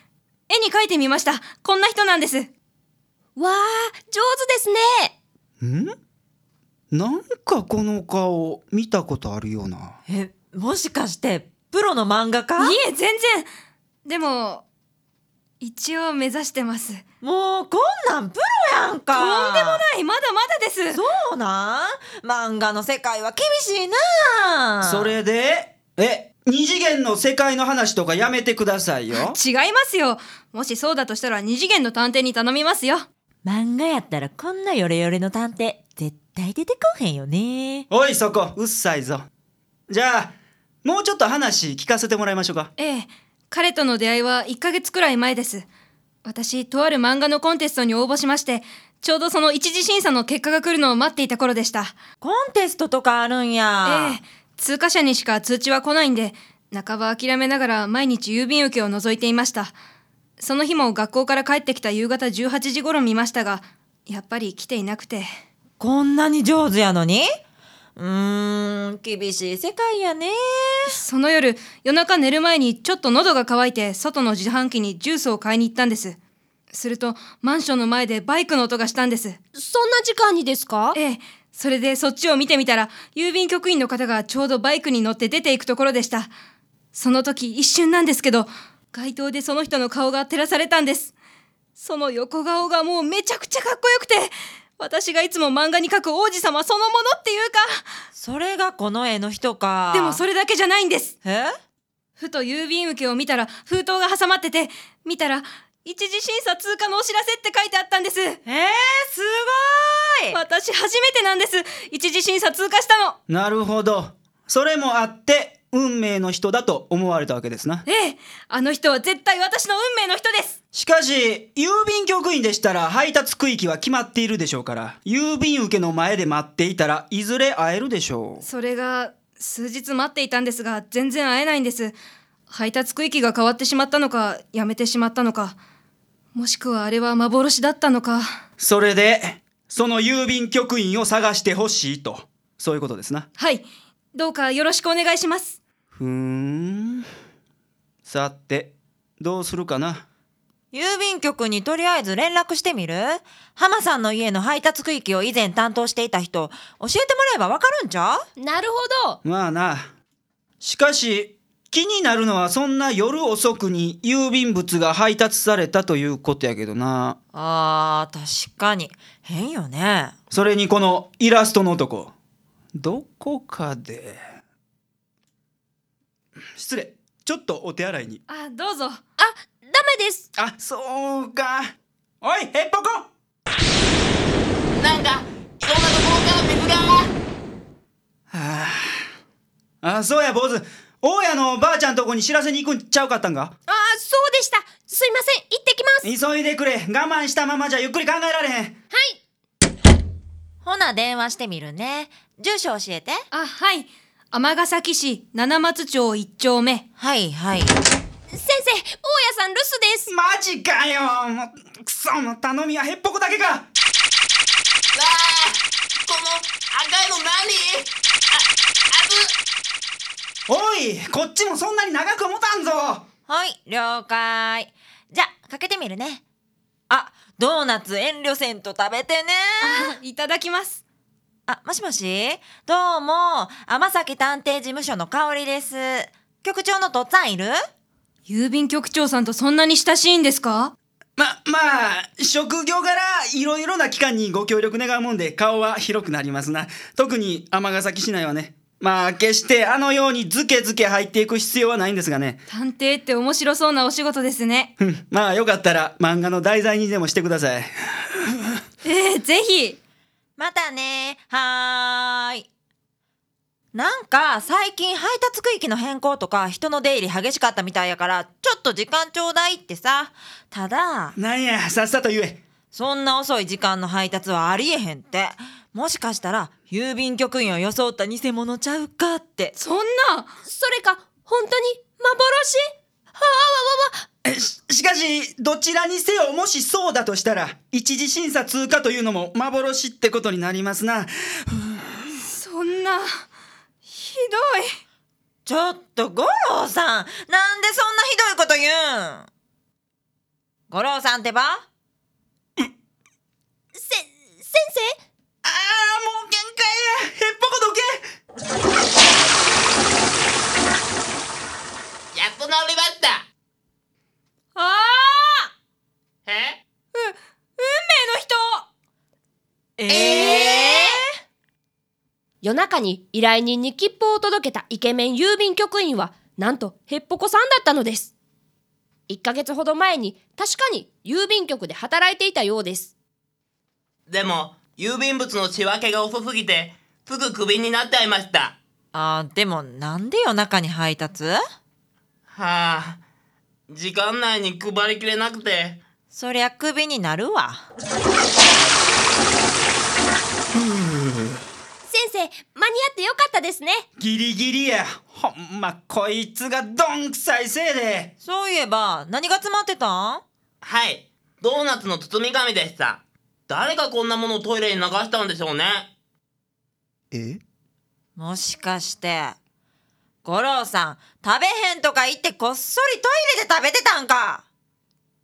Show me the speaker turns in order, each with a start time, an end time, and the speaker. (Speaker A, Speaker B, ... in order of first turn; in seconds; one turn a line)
Speaker A: 0.5-2.5
Speaker B: 3.4-5.1
Speaker C: 5.6-5.9
Speaker C: 6.9-10.0
Speaker D: 10.1-12.8
Speaker A: 12.6-13.5
Speaker A: 14.1-14.6
Speaker A: 15.6-17.0
Speaker D: 17.2-19.8
Speaker A: 19.1-21.0
Speaker D: 20.9-25.1
Speaker C: 24.8-29.4
Speaker A: 29.1-33.0
Speaker D: 33.4-37.9
Speaker C: 37.9-39.3
Speaker C: 39.9-42.7
Speaker A: 42.8-45.6
Speaker A: 46.2-52.0
Speaker D: 52.2-54.2
Speaker A: 53.9-59.7
Speaker A: 60.4-65.3
Speaker D: 65.8-67.3
Speaker D: 68.0-70.9
Speaker A: 70.9-76.2
Speaker A: 76.7-79.4
Speaker B: 79.5-81.0
Speaker A: 80.9-86.3
Speaker A: 86.9-91.1
Speaker A: 91.8-97.8
Speaker D: 98.1-100.2
Speaker A: 99.9-101.1
Speaker D: 101.2-101.5
Speaker A: 102.2-108.4
Speaker D: 108.5-110.4
Speaker A: 110.3-113.2
Speaker C: 113.3-117.8
Speaker A: 117.8-120.6
Speaker C: 120.7-128.4
Speaker A: 128.4-131.9
Speaker A: 132.5-135.6
Speaker A: 136.3-138.3
Speaker C: 138.6-143.3
Speaker A: 143.4-145.6
Speaker C: 145.9-147.1
Speaker C: 148.0-150.1
Speaker D: 150.7-158.2
Speaker B: 158.4-159.2
Speaker C: 159.2-159.9
Speaker C: 160.6-167.2
Speaker D: 167.3-170.1
Speaker C: 170.3-172.1
Speaker C: 172.8-174.2
Speaker C: 176.5-178.2
Speaker A: 178.3-179.0
Speaker B: 179.2-180.3
Speaker C: 180.4-183.1
Speaker E: 184.8-187.1
Speaker C: 188.3-189.1
Speaker C: 189.8-193.5
Speaker B: 193.7-196.1
Speaker C: 196.0-198.8
Speaker B: 198.9-199.2
Speaker D: 200.6-203.3
Speaker A: 203.3-206.8
Speaker D: 207.0-207.8
Speaker B: 208.3-210.1
Speaker C: 210.1-213.7
Speaker E: 214.9-219.2
Speaker C: 220.5-223.1
Speaker D: 223.3-226.2
Speaker D: 226.9-229.9
Speaker A: 229.6-230.8
Speaker D: 231.5-237.6
Speaker A: 238.3-240.7
Speaker C: 241.2-252.4
Speaker A: 252.5-254.7
Speaker C: 254.8-258.6
Speaker A: 258.8-259.8
Speaker D: 260.4-262.4
Speaker D: 263.7-271.1
Speaker C: 271.1-272.4
Speaker D: 272.7-279.5
Speaker A: 279.6-280.3
Speaker B: 280.4-282.6
Speaker B: 283.1-284.1
Speaker C: 284.2-291.9
Speaker A: 292.2-293.1
Speaker A: 293.9-294.7
Speaker D: 295.4-299.3
Speaker D: 300.7-301.6
Speaker B: 303.7-305.0
Speaker C: 305.4-308.1
Speaker E: 312.1-313.2
Speaker A: 314.5-315.5
Speaker E: 316.2-316.6
Speaker A: 316.9-318.6
Speaker D: 319.8-321.0
Speaker B: 319.9-320.8
Speaker B: 322.4-328.1
Speaker B: 329.1-332.9
Speaker E: 334.1-338.6
Speaker D: 338.9-341.4
Speaker E: 342.3-343.0
Speaker E: 343.7-345.8
Speaker D: 346.1-347.7
Speaker B: 351.8-353.8
Speaker C: 354.0-358.1
Speaker D: 358.2-360.2
Speaker E: 360.6-365.9
Speaker D: 368.1-369.4
Speaker D: 370.2-374.4